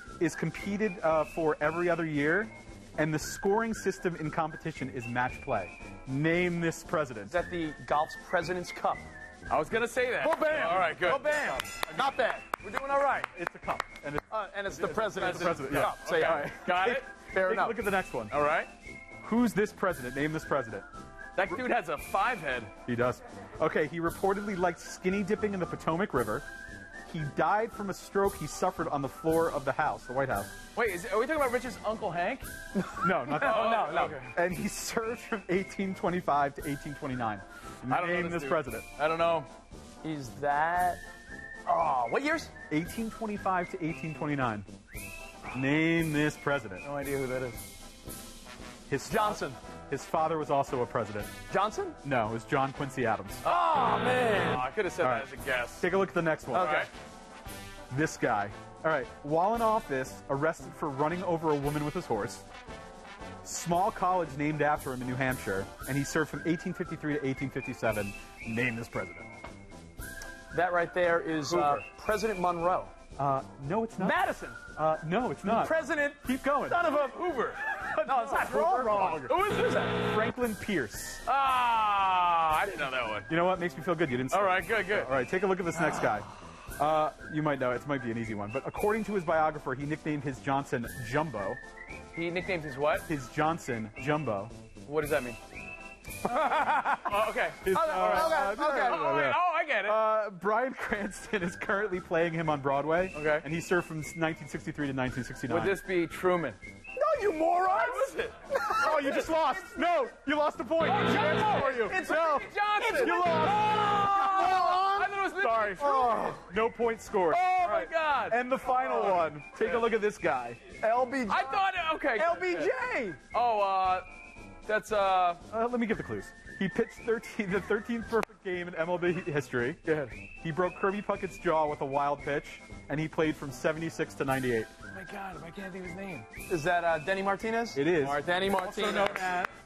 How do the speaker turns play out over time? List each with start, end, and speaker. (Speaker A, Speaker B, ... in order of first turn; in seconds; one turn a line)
Speaker A: 0.2-7.3
Speaker B: 7.3-9.0
Speaker C: 9.5-11.6
Speaker B: 10.2-13.3
Speaker A: 13.3-18.3
Speaker B: 14.3-16.5
Speaker C: 15.1-17.1
Speaker B: 17.3-17.8
Speaker C: 18.3-18.7
Speaker A: 19.2-20.9
Speaker C: 21.4-22.7
Speaker A: 22.8-26.4
Speaker A: 27.1-30.5
Speaker C: 30.7-32.5
Speaker B: 32.8-34.2
Speaker A: 33.0-38.9
Speaker C: 33.3-34.3
Speaker C: 37.9-39.5
Speaker B: 40.0-41.0
Speaker B: 41.6-42.5
Speaker A: 42.7-44.7
Speaker A: 45.5-46.8
Speaker C: 46.8-47.6
Speaker A: 48.9-51.3
Speaker B: 49.0-49.6
Speaker B: 51.5-52.0
Speaker A: 52.0-53.4
Speaker B: 53.4-54.7
Speaker C: 53.4-55.9
Speaker A: 55.0-56.9
Speaker B: 56.5-56.9
Speaker C: 56.5-56.9
Speaker A: 57.9-62.4
Speaker A: 63.4-69.3
Speaker B: 70.5-72.9
Speaker C: 71.5-71.8
Speaker A: 73.2-74.2
Speaker B: 74.0-74.6
Speaker A: 74.7-76.8
Speaker B: 75.4-77.2
Speaker C: 76.8-77.7
Speaker A: 77.7-81.2
Speaker B: 78.0-79.3
Speaker C: 79.1-80.1
Speaker C: 81.2-83.3
Speaker A: 83.3-91.6
Speaker C: 84.3-85.1
Speaker C: 92.1-93.1
Speaker A: 93.0-94.5
Speaker C: 94.8-95.4
Speaker B: 96.3-97.0
Speaker C: 96.4-100.0
Speaker A: 97.6-105.8
Speaker B: 97.7-99.3
Speaker C: 103.1-103.5
Speaker C: 105.5-106.6
Speaker B: 106.9-109.7
Speaker C: 107.7-108.3
Speaker A: 108.6-112.2
Speaker C: 110.8-116.0
Speaker B: 111.1-115.2
Speaker A: 112.9-117.5
Speaker B: 115.8-116.5
Speaker C: 117.3-118.4
Speaker B: 117.5-117.9
Speaker A: 118.3-120.6
Speaker B: 118.6-119.2
Speaker C: 119.0-119.8
Speaker B: 120.8-123.2
Speaker C: 121.3-122.7
Speaker C: 123.3-124.1
Speaker C: 124.7-125.4
Speaker A: 125.5-129.8
Speaker C: 129.8-130.1
Speaker A: 130.4-134.7
Speaker C: 134.9-136.3
Speaker B: 136.5-139.3
Speaker A: 137.7-139.5
Speaker C: 137.9-139.2